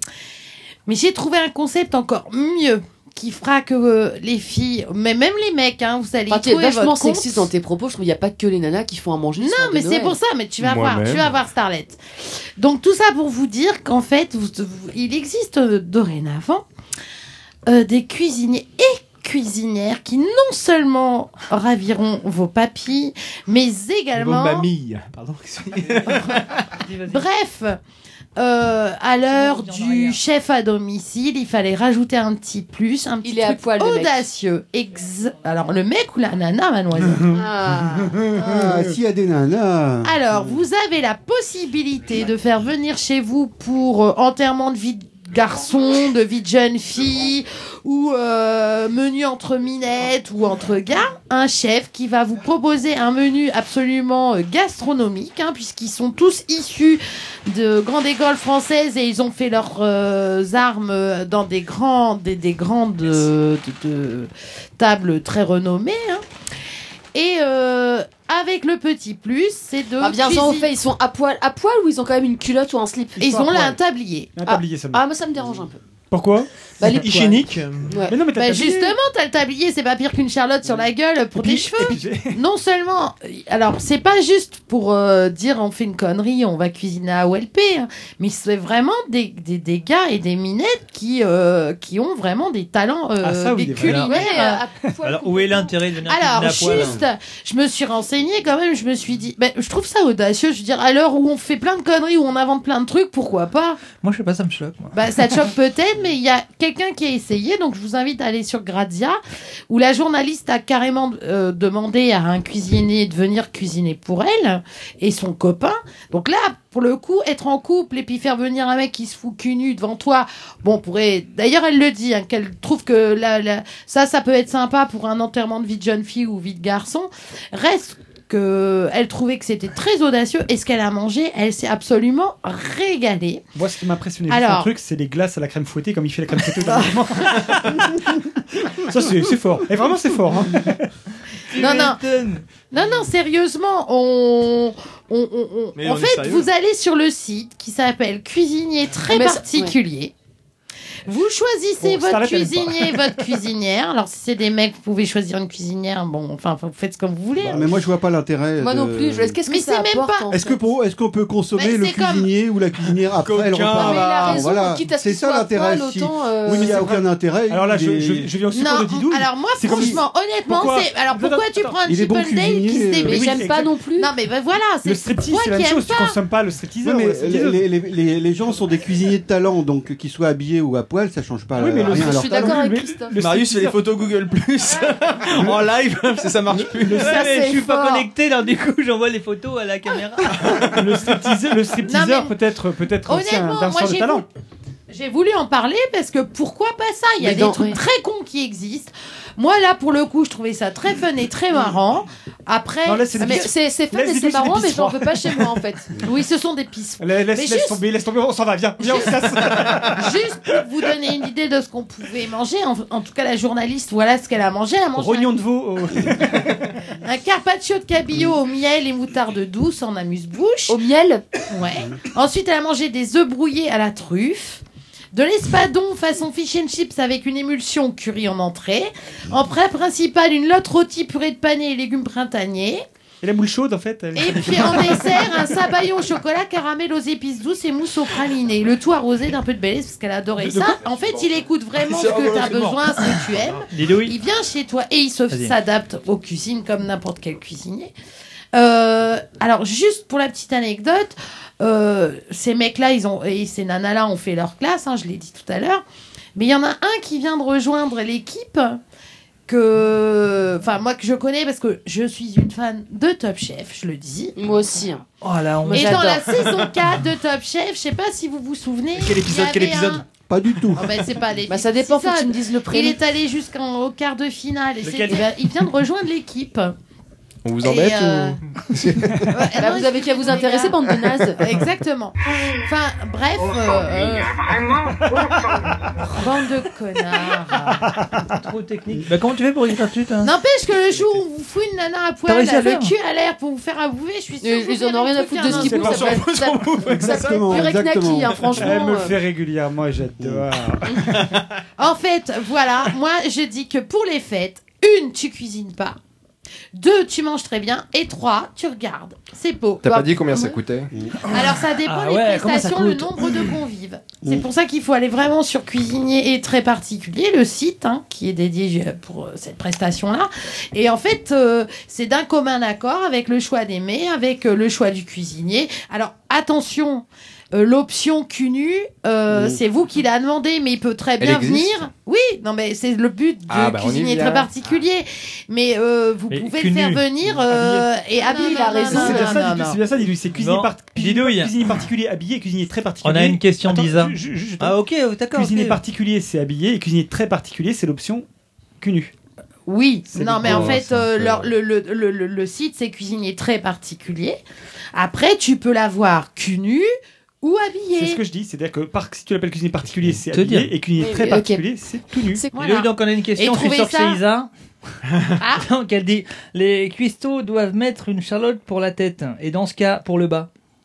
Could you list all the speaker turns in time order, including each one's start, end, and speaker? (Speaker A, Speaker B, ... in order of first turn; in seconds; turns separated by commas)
Speaker A: 0.9-7.5, Speaker B: 6.3-10.2, Speaker A: 9.4-16.6, Speaker C: 10.6-11.4, Speaker A: 17.7-24.7, Speaker D: 24.1-26.7, Speaker E: 26.0-27.2, Speaker A: 27.1-27.8, Speaker A: 28.4-37.3, Speaker E: 29.3-30.2, Speaker B: 33.2-34.3, Speaker B: 37.3-38.2, Speaker F: 38.4-40.6, Speaker A: 40.0-66.2, Speaker A: 67.1-70.7, Speaker B: 70.0-73.6, Speaker A: 73.2-74.3, Speaker G: 73.5-73.8, Speaker G: 74.4-75.0, Speaker B: 74.5-75.8, Speaker G: 76.1-77.1, Speaker B: 76.8-78.2, Speaker D: 77.0-78.0, Speaker G: 78.1-79.0, Speaker A: 78.3-94.6, Speaker G: 81.3-82.4, Speaker G: 93.2-94.1, Speaker E: 93.8-94.3, Speaker B: 93.9-95.7, Speaker E: 95.0-97.0, Speaker A: 96.1-103.8, Speaker E: 104.0-105.3, Speaker A: 104.9-133.4, Speaker G: 133.6-140.9, Speaker A: 134.3-134.7, Speaker E: 141.5-142.4, Speaker A: 141.5-142.0, Speaker A: 142.7-150.1, Speaker D: 145.8-146.5, Speaker B: 149.1-149.8, Speaker A: 151.1-157.8, Speaker G: 151.8-153.1, Speaker F: 157.4-159.4, Speaker B: 158.6-160.6, Speaker A: 159.5-160.3, Speaker F: 160.3-168.3, Speaker A: 161.6-162.3, Speaker D: 163.2-164.5, Speaker B: 163.7-166.9, Speaker G: 166.5-171.8, Speaker A: 168.5-176.2, Speaker F: 169.7-170.0, Speaker F: 171.9-173.3, Speaker B: 173.1-174.1, Speaker G: 173.1-173.7, Speaker G: 174.8-177.6, Speaker F: 176.8-182.6, Speaker G: 181.6-183.8, Speaker B: 181.8-183.2, Speaker D: 183.2-187.2, Speaker B: 186.8-188.1, Speaker E: 186.9-190.8, Speaker G: 190.5-194.2, Speaker A: 191.8-192.3, Speaker A: 193.1-194.2, Speaker A: 194.9-203.5, Speaker B: 197.2-197.8, Speaker G: 202.8-205.6, Speaker B: 203.2-205.9, Speaker A: 206.0-207.8, Speaker G: 207.0-210.2, Speaker A: 208.8-215.4, Speaker G: 215.0-216.8, Speaker A: 217.0-220.8, Speaker B: 220.7-221.3, Speaker A: 221.5-224.6, Speaker A: 225.1-232.8, Speaker G: 233.2-235.4, Speaker A: 234.2-247.9, Speaker D: 240.4-240.7, Speaker D: 241.8-243.6, Speaker E: 243.7-244.1, Speaker A: 248.5-255.8, Speaker A: 256.4-258.8, Speaker A: 259.5-264.4, Speaker B: 264.4-265.0, Speaker E: 265.2-266.2, Speaker B: 265.6-266.6, Speaker A: 265.7-270.1, Speaker D: 268.9-270.1, Speaker F: 270.3-270.9, Speaker A: 270.8-276.8, Speaker B: 271.5-273.0, Speaker E: 274.9-275.2, Speaker C: 277.4-279.3, Speaker A: 277.6-278.4, Speaker A: 279.3-280.8, Speaker B: 279.6-281.4, Speaker A: 281.4-284.4, Speaker G: 285.0-285.5, Speaker A: 286.1-287.8, Speaker G: 287.8-288.3, Speaker E: 288.4-290.3, Speaker A: 290.2-296.2, Speaker E: 292.3-292.9, Speaker B: 294.4-299.2, Speaker G: 295.5-296.2, Speaker D: 295.7-297.7, Speaker F: 297.1-298.8, Speaker G: 298.6-301.4, Speaker F: 300.2-300.5, Speaker A: 301.8-306.0, Speaker A: 306.8-309.8, Speaker C: 309.8-310.9, Speaker B: 309.9-310.6, Speaker E: 311.3-313.5, Speaker A: 311.3-339.8, Speaker F: 329.3-329.6, Speaker C: 331.2-331.8, Speaker C: 333.5-334.5, Speaker E: 336.3-337.0, Speaker G: 337.5-337.9, Speaker B: 338.2-339.5, Speaker G: 338.8-344.8, Speaker E: 340.4-341.5, Speaker E: 343.0-345.8, Speaker G: 345.3-348.3, Speaker G: 348.8-349.1, Speaker A: 349.7-354.4, Speaker G: 350.1-350.9, Speaker F: 350.4-350.8, Speaker A: 354.9-356.9, Speaker A: 357.4-358.2, Speaker G: 358.0-362.4, Speaker E: 360.3-360.7, Speaker B: 361.0-362.5, Speaker A: 362.5-364.2, Speaker E: 362.6-364.5, Speaker A: 365.4-365.6, Speaker E: 365.6-370.5